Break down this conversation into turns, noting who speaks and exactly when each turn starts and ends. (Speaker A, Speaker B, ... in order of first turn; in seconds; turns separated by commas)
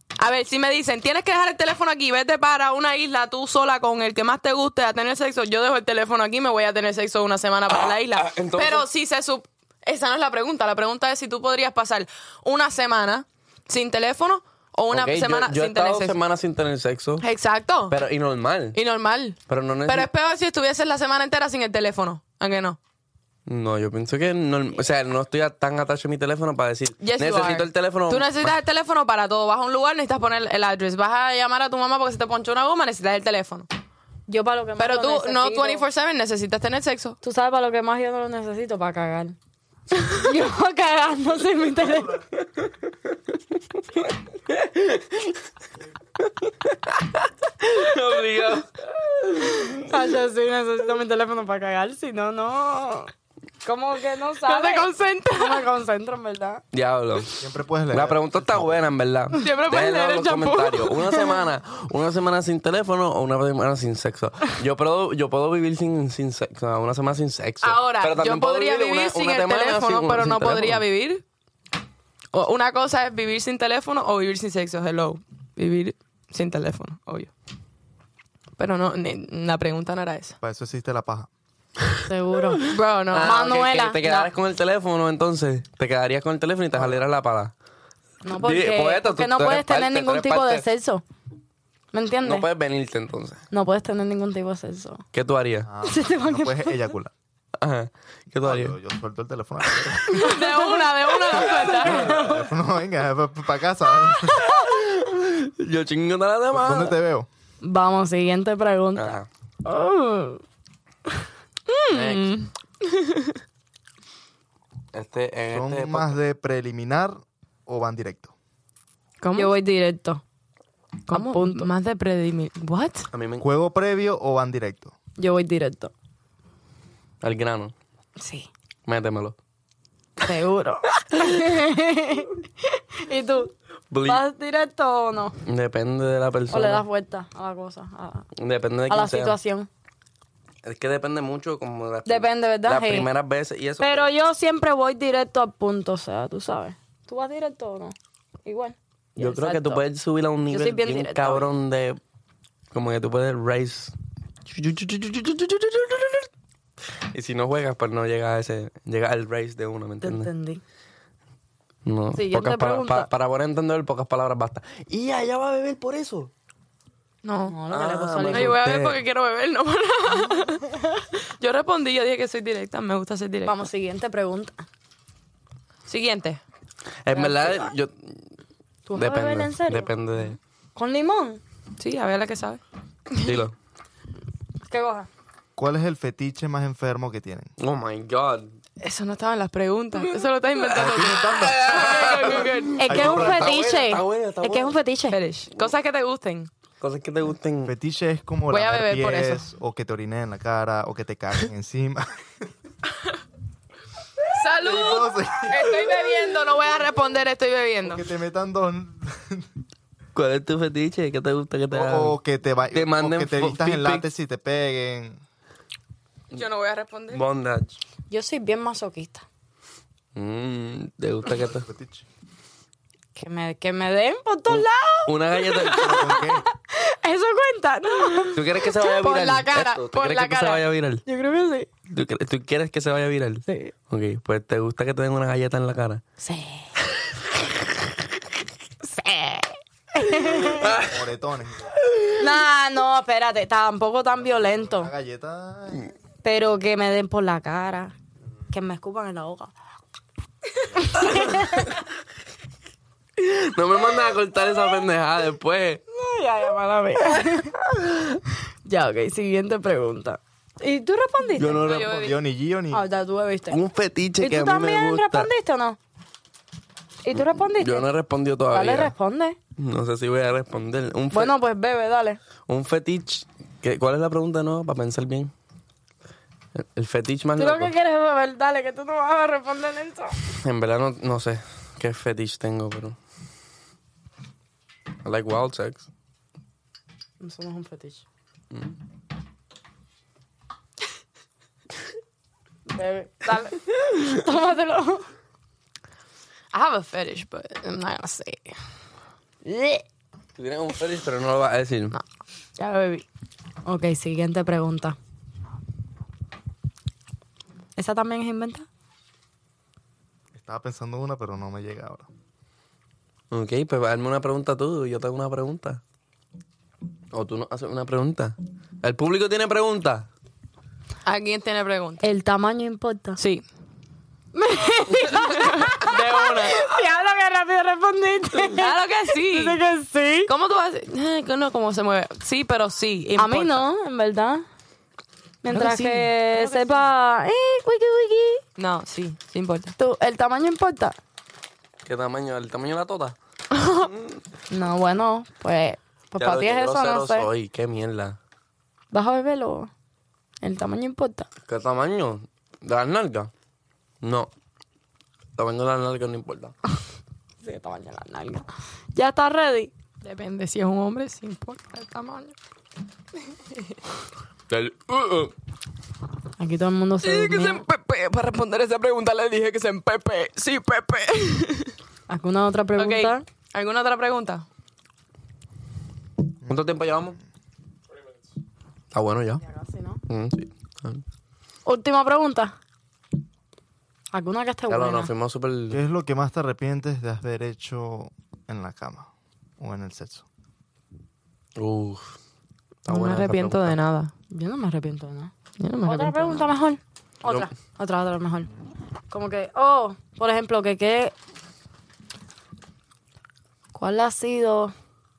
Speaker A: 0.2-16.2, Speaker B: 7.7-8.8, Speaker B: 14.9-17.2, Speaker A: 17.2-18.0, Speaker B: 17.9-18.8, Speaker A: 18.7-22.8, Speaker B: 19.5-20.1, Speaker B: 23.4-28.5, Speaker A: 27.0-33.7, Speaker C: 34.3-35.8, Speaker A: 34.8-37.2, Speaker C: 37.2-39.4, Speaker C: 40.0-42.2, Speaker B: 44.5-45.3, Speaker B: 46.5-49.8, Speaker C: 49.6-53.1, Speaker C: 53.6-56.6, Speaker A: 54.4-55.7, Speaker B: 56.7-70.8, Speaker D: 57.4-58.8, Speaker A: 59.4-61.2, Speaker A: 67.6-71.2, Speaker A: 72.3-77.3, Speaker A: 78.6-80.4, Speaker D: 80.4-81.3, Speaker C: 82.1-84.3, Speaker A: 82.6-83.5, Speaker B: 83.1-87.5, Speaker D: 86.7-87.0, Speaker C: 88.2-91.0, Speaker B: 88.3-90.7, Speaker C: 91.9-92.5, Speaker B: 92.2-93.4, Speaker C: 93.5-95.0, Speaker B: 95.1-95.7, Speaker D: 95.6-97.1, Speaker C: 95.8-96.8, Speaker B: 97.6-98.8, Speaker D: 98.4-100.3, Speaker A: 100.1-102.1, Speaker C: 100.2-102.5, Speaker D: 102.0-104.5, Speaker C: 104.3-104.7, Speaker B: 104.3-106.9, Speaker D: 106.5-107.3, Speaker C: 107.6-110.4, Speaker B: 109.0-109.3, Speaker A: 111.7-113.4, Speaker B: 111.9-112.4, Speaker B: 114.9-116.2, Speaker D: 115.5-118.3, Speaker A: 119.2-119.5, Speaker C: 119.3-120.2, Speaker C: 121.1-121.7, Speaker A: 121.1-123.1, Speaker B: 123.1-123.4, Speaker D: 123.4-124.9, Speaker C: 125.2-125.9, Speaker B: 127.2-127.7, Speaker C: 128.2-128.5, Speaker B: 128.8-129.3, Speaker C: 130.2-133.5, Speaker B: 133.9-134.2, Speaker C: 134.0-135.4, Speaker B: 135.4-136.8, Speaker C: 136.5-138.3, Speaker B: 138.3-139.4, Speaker C: 138.9-139.7, Speaker B: 140.6-144.1, Speaker C: 142.1-143.1, Speaker C: 143.8-149.8, Speaker B: 149.2-152.0, Speaker C: 150.5-151.5, Speaker B: 152.7-153.9, Speaker B: 154.4-156.3, Speaker B: 157.1-160.3, Speaker C: 160.0-160.6, Speaker B: 161.8-166.3, Speaker C: 162.1-163.1, Speaker A: 167.2-167.6, Speaker C: 167.5-168.6, Speaker B: 167.7-169.0, Speaker A: 168.3-170.6, Speaker C: 170.7-171.0, Speaker A: 171.4-173.6, Speaker C: 173.4-174.6, Speaker A: 175.9-176.4, Speaker B: 177.0-178.2, Speaker C: 177.1-177.7, Speaker C: 178.9-179.9, Speaker B: 178.9-180.4, Speaker C: 180.8-181.4, Speaker A: 181.8-182.6, Speaker B: 183.2-183.5, Speaker C: 184.7-185.1, Speaker D: 185.6-187.5, Speaker B: 187.6-188.5, Speaker A: 188.8-192.8, Speaker B: 190.6-194.8, Speaker D: 190.7-193.6, Speaker C: 192.8-195.2, Speaker A: 195.1-196.5, Speaker B: 196.8-197.7, Speaker D: 197.6-202.2, Speaker A: 198.5-199.4, Speaker A: 204.3-208.0, Speaker D: 204.5-206.0, Speaker D: 207.8-209.4, Speaker B: 210.1-212.2, Speaker D: 211.7-215.2, Speaker B: 212.7-214.0, Speaker A: 216.3-217.2, Speaker B: 217.1-217.8, Speaker C: 218.1-219.2, Speaker B: 220.1-221.7, Speaker D: 221.4-222.1, Speaker C: 223.1-229.4, Speaker B: 224.5-226.3, Speaker D: 225.8-226.5, Speaker B: 228.3-231.0, Speaker A: 229.0-230.6, Speaker C: 231.1-231.7, Speaker B: 231.9-236.0, Speaker C: 233.5-233.7, Speaker C: 236.2-236.7, Speaker C: 238.8-240.8, Speaker B: 240.2-240.9, Speaker D: 240.6-241.8, Speaker C: 242.2-244.9, Speaker D: 244.2-245.9, Speaker C: 246.2-247.9, Speaker C: 248.5-249.5, Speaker C: 250.7-251.8, Speaker B: 251.1-251.4, Speaker B: 253.2-255.8, Speaker C: 255.9-257.6, Speaker C: 258.6-261.6, Speaker B: 261.4-262.0, Speaker A: 261.6-262.2, Speaker D: 261.6-262.9, Speaker C: 262.7-263.6, Speaker B: 263.5-265.3, Speaker C: 264.2-265.8, Speaker C: 267.0-267.9, Speaker B: 267.1-268.9, Speaker C: 268.5-269.4, Speaker B: 269.6-271.3, Speaker C: 271.1-272.2, Speaker B: 272.5-275.3, Speaker B: 276.5-277.7, Speaker C: 277.4-280.2, Speaker B: 280.4-283.0, Speaker B: 285.0-285.9, Speaker C: 287.2-288.0, Speaker C: 292.7-295.1, Speaker A: 296.5-298.5, Speaker C: 299.4-299.8, Speaker B: 300.4-302.0, Speaker A: 302.6-303.1, Speaker C: 303.6-304.9, Speaker C: 307.8-308.7, Speaker D: 310.3-312.1, Speaker B: 313.3-315.8, Speaker B: 317.1-320.1, Speaker A: 321.0-322.0, Speaker C: 322.0-323.2, Speaker A: 323.2-323.4, Speaker C: 324.3-330.3, Speaker A: 325.1-326.7, Speaker A: 328.5-329.6, Speaker A: 330.3-333.6, Speaker C: 333.1-334.4, Speaker C: 335.4-338.4, Speaker A: 335.5-336.9, Speaker A: 338.6-339.7, Speaker C: 339.8-340.9, Speaker B: 341.8-343.1, Speaker A: 343.5-343.9, Speaker B: 343.7-344.2, Speaker C: 344.5-347.3, Speaker B: 346.2-348.2, Speaker C: 348.9-349.7, Speaker C: 350.4-351.3, Speaker B: 351.4-353.3, Speaker B: 354.0-354.3, Speaker B: 355.4-356.5, Speaker C: 357.4-359.7, Speaker A: 360.0-362.3, Speaker B: 364.5-365.3, Speaker C: 366.4-367.6, Speaker A: 367.0-371.7, Speaker C: 372.1-373.2, Speaker A: 372.8-374.4, Speaker B: 376.4-377.2, Speaker B: 378.9-379.4, Speaker C: 379.4-380.0, Speaker B: 380.1-381.0, Speaker C: 381.6-382.5, Speaker C: 384.1-385.1, Speaker B: 384.7-385.8, Speaker D: 385.7-390.2, Speaker B: 391.6-392.1, Speaker B: 392.9-393.8, Speaker A: 392.9-394.1, Speaker C: 394.3-395.3, Speaker A: 395.6-396.5, Speaker C: 395.8-398.5, Speaker C: 399.1-401.1, Speaker C: 403.7-404.7